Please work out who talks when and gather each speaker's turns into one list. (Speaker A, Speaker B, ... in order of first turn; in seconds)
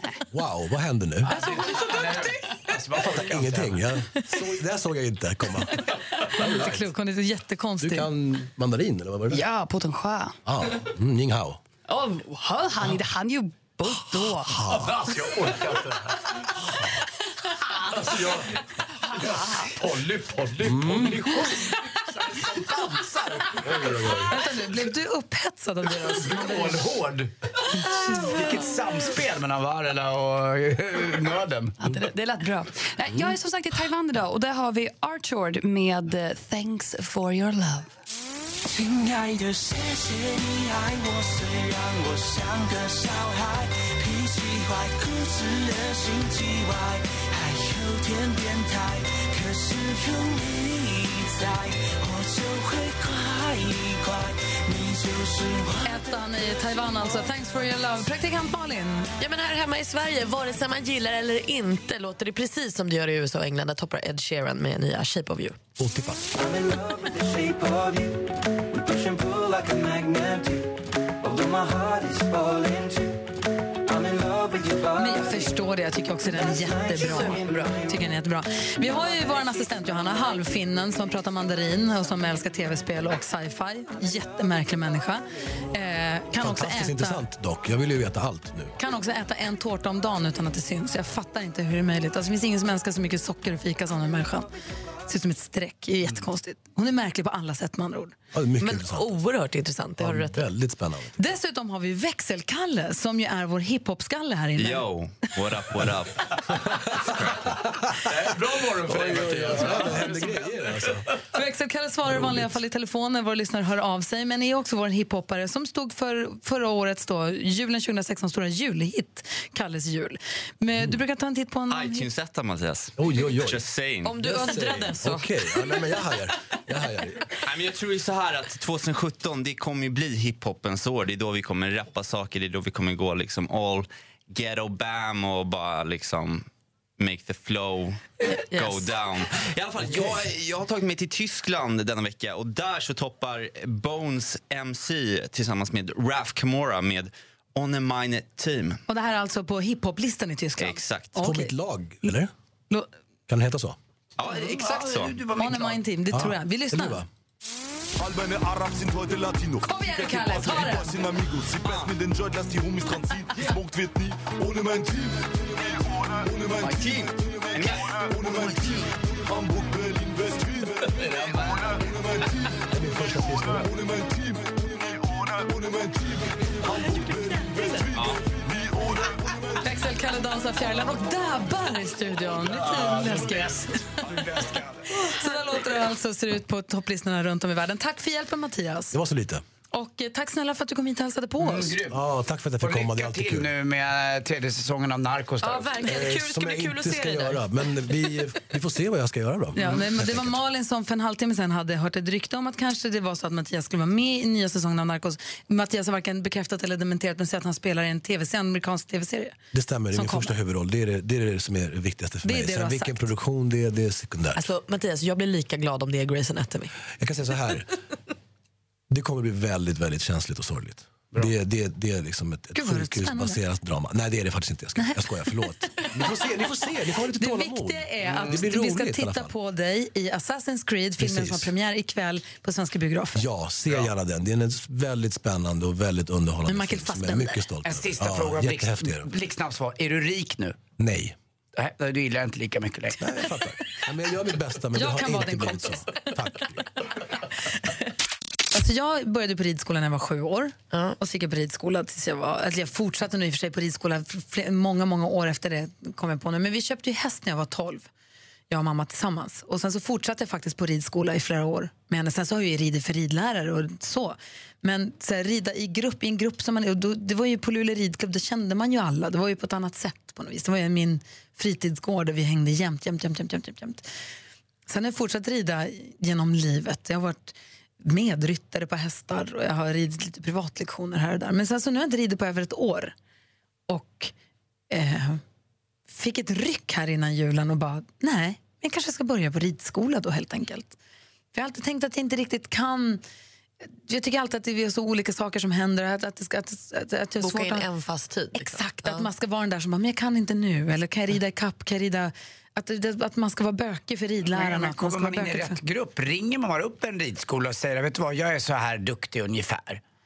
Speaker A: 0.3-1.4, 2.8-6.9, 7.8-9.4, 10.5-11.6, 14.1-15.8, 20.6-21.3, 23.5-24.4, 65.8-66.2, 86.4-88.7, 98.3-99.1, 100.0-101.2, 106.7-108.0, 108.7-111.1, 112.1-112.5, 123.0-127.3, 151.2-152.3, 153.3-153.8, 156.1-157.1, 172.7-173.7, 188.9-189.4, 191.9-193.5, 195.8-200.4, 209.5-214.4, 217.0-217.7, 218.9-229.3, 231.0-231.5, 233.2-239.1, 240.8-241.2, 243.0-246.7
Speaker B: 1.2-4.0, 20.6-23.1, 26.2-27.3, 28.0-31.8, 108.6-109.5, 154.2-155.8, 182.6-184.9, 191.4-192.0, 192.6-195.8, 228.1-228.4, 237.7-240.6, 241.6-243.0, 304.3-309.8
Speaker C: 6.2-8.1, 24.2-26.9, 55.8-59.1, 74.9-87.2, 88.8-94.5, 95.1-98.2, 101.2-104.9, 111.3-122.1, 148.9-152.1, 155.3-157.0, 159.7-161.0, 179.6-184.0, 184.9-189.0, 189.7-191.8, 199.6-209.4, 209.9-210.3, 212.2-213.1, 222.6-223.4, 224.8-225.0, 227.2-233.2, 236.5-237.4, 244.7-245.9, 248.5-257.9, 258.5-273.9, 274.7-282.9, 283.7-284.1, 284.7-285.2, 285.9-290.8, 291.3-293.0, 293.6-297.7, 298.3-305.6
Speaker D: 9.3-10.4, 11.9-14.7, 31.8-37.9
Speaker E: 38.7-56.1, 70.1-70.3
Speaker F: 59.2-65.6, 76.9-77.7, 98.6-100.4, 124.0-125.9, 138.5-138.9, 195.4-197.4, 214.4-216.7, 297.2-299.1
Speaker G: 104.6-106.5, 107.0-107.4, 121.7-124.1, 127.4-136.5, 137.0-148.8, 150.6-151.2, 154.2-155.2, 161.6-162.0, 166.7-168.8, 177.9-178.2
Speaker H: 108.6-110.0, 158.0-179.7, 182.3-182.8